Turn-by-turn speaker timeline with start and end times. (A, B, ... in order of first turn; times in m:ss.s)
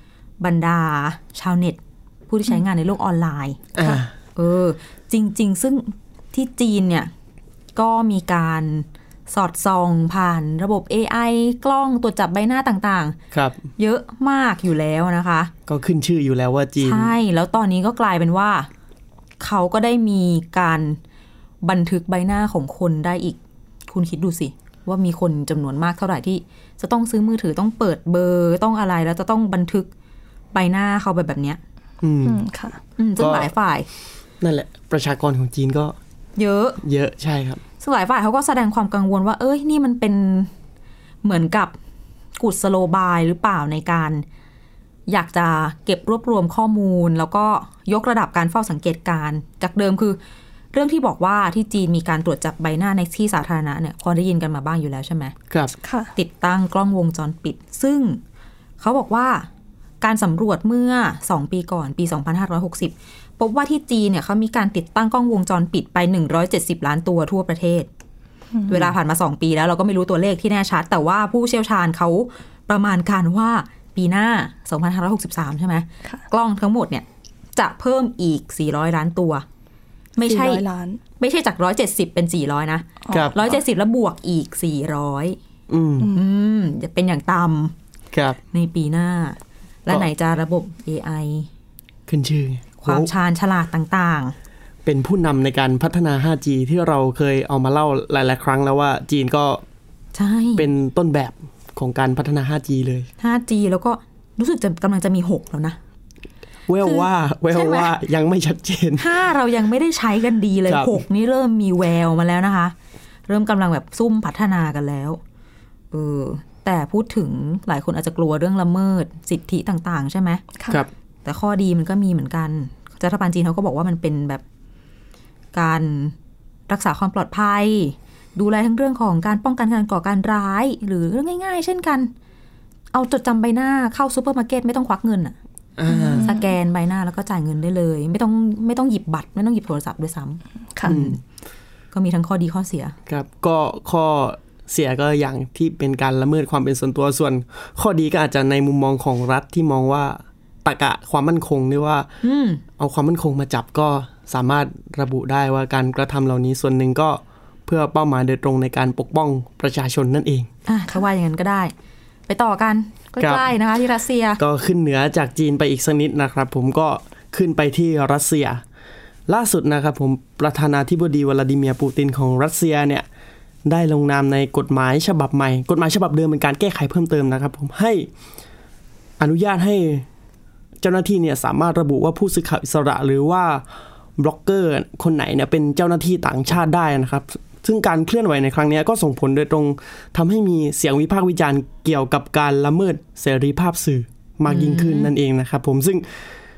0:00.4-0:07.1 A
0:03.8-0:04.1 B
0:07.8-0:13.2 A
0:13.3-0:13.6 B
0:13.8-0:15.5 A
0:15.7-0:17.1 B
0:16.8-0:18.7 A
0:19.4-0:21.0 A
0:21.6-0:29.9 A
0:30.5-0:31.6 A
0:32.0-0:32.4 B
0:32.2-0:32.8 C
0:33.0-0:33.9 A
0:33.2-0:33.5 B
0:34.4-0:36.0 B
0:36.4-0:36.8 A
0:36.8-0:37.6 B
0:37.8-0:40.5 A
0:41.2-0:41.8 A
0:42.4-0:44.2 A
0:45.1-0:50.2 A
0:50.7-0:55.4 A
0:55.5-0:55.8 B
0:55.8-0:56.1 C
0:56.2-0:58.2 A
0:58.8-0:59.5 A
1:00.0-1:07.9 A
1:08.5-1:08.9 C
1:08.7-1:19.4 A
1:20.2-1:20.6 A
1:20.2-1:21.0 C
1:21.2-1:25.4 A
1:23.0-1:23.3 C
1:23.1-1:23.4 B
1:25.7-1:26.1 B
1:26.0-1:27.7 A
1:28.1-1:28.4 B
1:28.5-1:31.5 A
1:32.1-1:33.1 B
1:32.8-1:34.4 A
1:34.8-1:39.6 B
1:40.2-1:40.7 A
1:40.6-1:43.1 B
1:43.2-1:45.8 A
1:46.7-1:49.1 B
1:46.8-1:47.9 A
1:49.0-1:52.8 A
1:50.7-1:51.0 B
1:53.3-1:55.2 A
1:55.9-2:00.4 A
2:01.2-2:04.4 A
2:05.5-2:06.2 A
2:06.7-2:12.1 A
2:12.9-2:15.4 A
2:15.8-2:16.3 B
2:15.9-2:21.2 A
2:16.0-2:16.3 C
2:20.8-2:21.0 C
2:20.8-2:21.2 B
2:21.9-2:23.0 A
2:23.1-2:32.1 B
2:32.2-2:32.6 A
2:32.8-2:40.5 B
2:40.7-2:41.7 A
2:42.3-2:44.4 A
2:43.2-2:43.5 B
2:44.4-2:48.6 B
2:49.3-2:53.1 B
2:53.7-2:58.1 B
2:59.2-3:00.1 B
3:00.8-3:03.6 B
3:04.2-3:16.2 B
3:14.5-3:15.1 A